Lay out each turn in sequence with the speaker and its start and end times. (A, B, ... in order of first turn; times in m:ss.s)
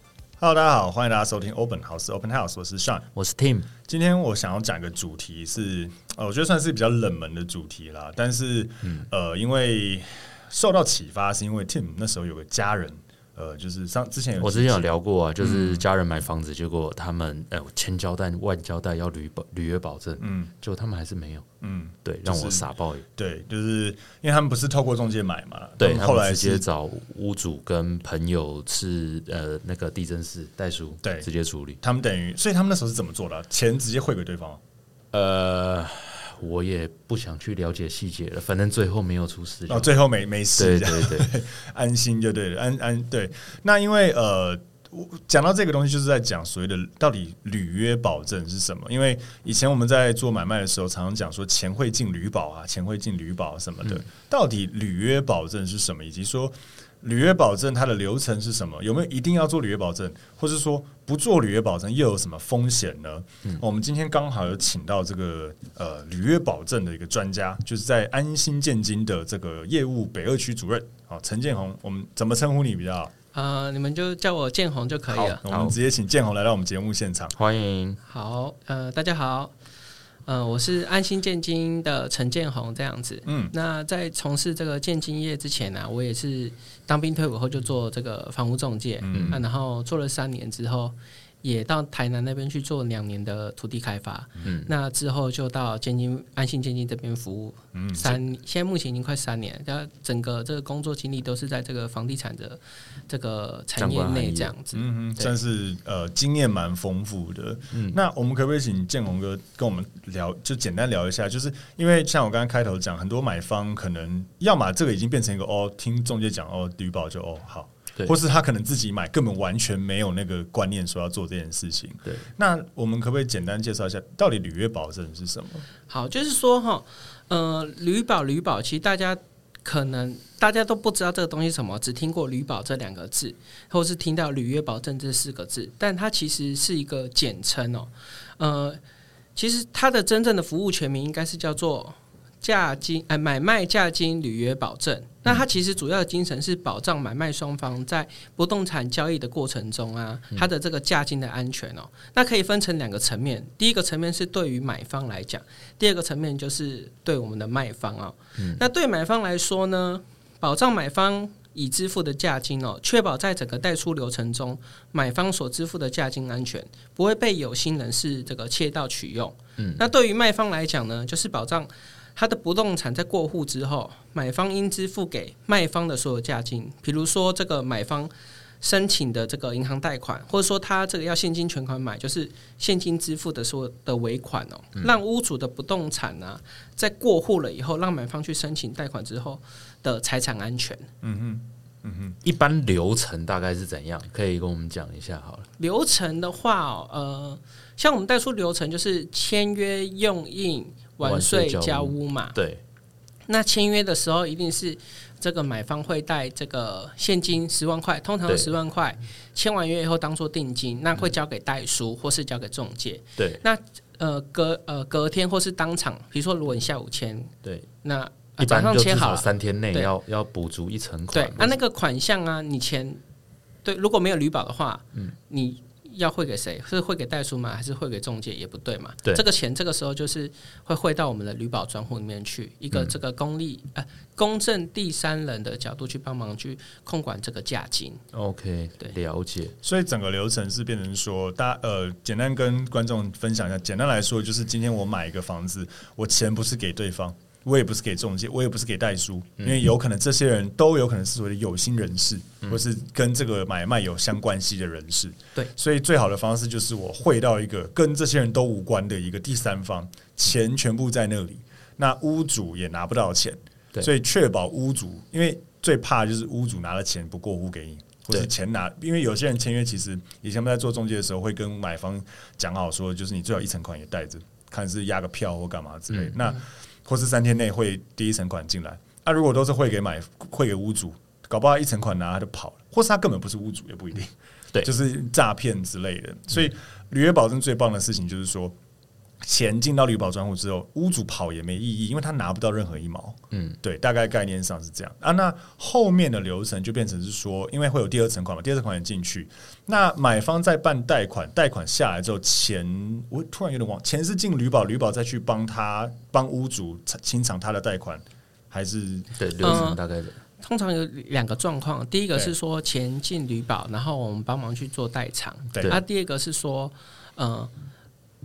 0:00.4-0:03.1 A
0:03.1-0:03.7 B
0:03.8-0:14.8 A
0:14.4-0:21.4 B
0:15.4-0:15.8 A
0:20.2-0:20.5 A
0:21.6-0:26.7 A
0:22.0-0:23.0 B
0:25.8-0:31.8 B
0:31.0-0:31.3 A
0:31.8-0:34.6 A
0:35.1-0:39.9 B
0:39.7-1:13.1 A
0:40.6-0:41.3 B
1:13.3-1:15.4 C
1:15.1-1:17.4 A
1:15.5-1:15.8 B
1:17.4-1:18.0 B
1:18.0-1:19.5 C
1:20.3-1:45.3 C
1:23.3-1:23.5 A
1:29.0-1:29.4 A
1:29.1-1:29.4 B
1:34.4-1:34.7 B
1:37.7-1:38.2 A
1:43.8-1:44.5 B
1:44.7-2:05.7 A
1:47.7-1:48.0 B
2:05.9-2:18.8 C
2:19.4-3:10.9 C
2:49.6-2:49.8 B
3:11.0-3:12.2 A
3:12.2-3:15.5 B
3:15.6-3:22.4 C
3:21.0-3:22.6 B
3:23.3-3:39.9 C
3:28.3-3:28.5 B
3:33.2-3:33.4 B
3:38.4-3:41.6 B
3:41.1-3:43.0 C
3:43.6-3:58.0 C
3:58.1-3:59.6 B
3:59.6-4:48.6 A
4:49.2-5:09.6 A
4:53.3-4:53.6 B
5:09.2-5:10.2 B
5:09.4-5:09.8 C
5:10.4-5:17.5 C